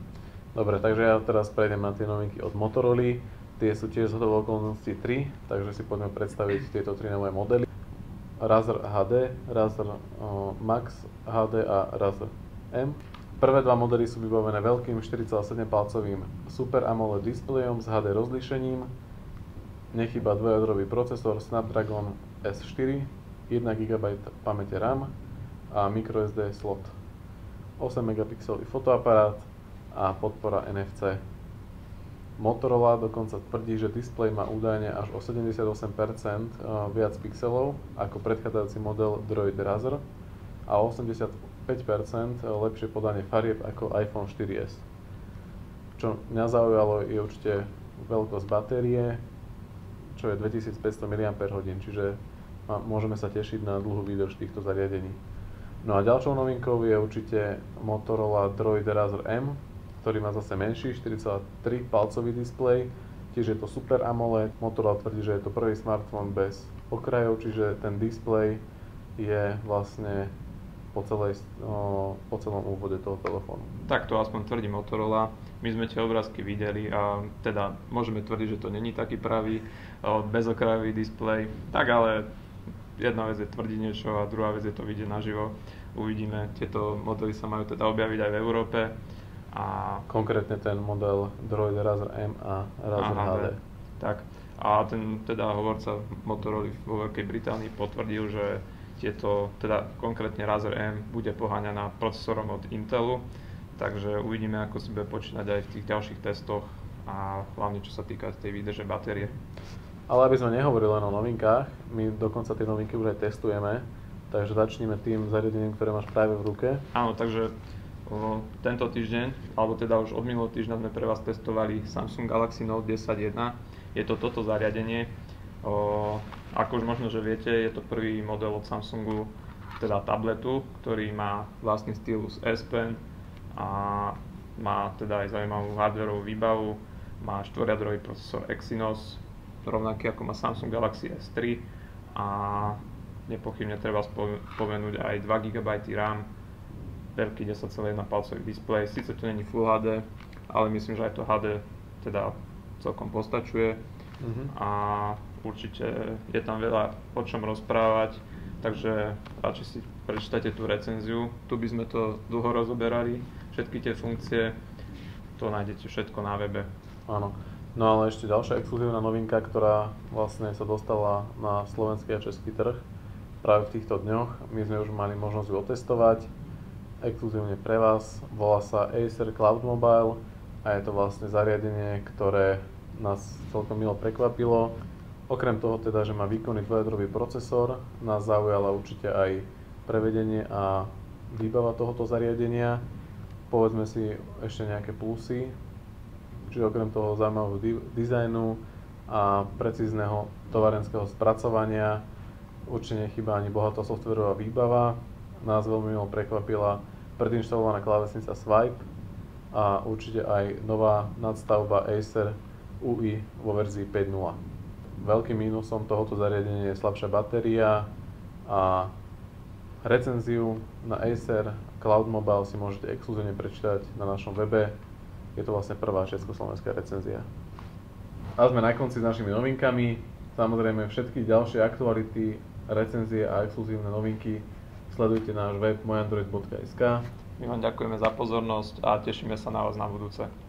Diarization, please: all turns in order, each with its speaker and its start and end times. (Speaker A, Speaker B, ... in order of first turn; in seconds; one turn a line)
Speaker A: 0.6-7.7
Speaker A: 8.4-18.9
Speaker A: 19.9-25.1
Speaker A: 25.7-26.9
Speaker A: 27.8-31.2
Speaker A: 32.4-40.0
Speaker A: 40.7-44.8
Speaker A: 46.0-49.2
Speaker A: 50.1-55.2
Speaker A: 55.8-68.6
Speaker A: 69.2-70.3
Speaker A: 70.9-73.7
Speaker B: 73.9-82.3
Speaker B: 83.0-89.0
Speaker B: 89.5-90.1
Speaker A: 90.1-93.6
Speaker B: 93.0-103.2
Speaker B: 103.8-109.3
Speaker A: 110.1-116.8
Speaker B: 116.9-117.5
Speaker B: 118.1-125.1
Speaker B: 125.6-133.0
Speaker B: 133.6-146.3
Speaker B: 147.2-153.8
Speaker A: 154.2-154.5
Speaker B: 154.5-164.6
Speaker B: 165.4-166.7
Speaker A: 167.1-172.8
Speaker A: 173.4-176.3
Speaker A: 177.0-184.7
Speaker A: 185.3-192.8
Speaker A: 193.5-195.5
Speaker A: 196.5-202.0
Speaker A: 202.7-208.8
Speaker A: 209.5-214.4
Speaker A: 215.0-217.9
Speaker A: 218.5-218.9
Speaker A: 219.8-224.7
Speaker A: 225.4-227.2
Speaker A: 228.4-237.0
Speaker B: 237.4-240.3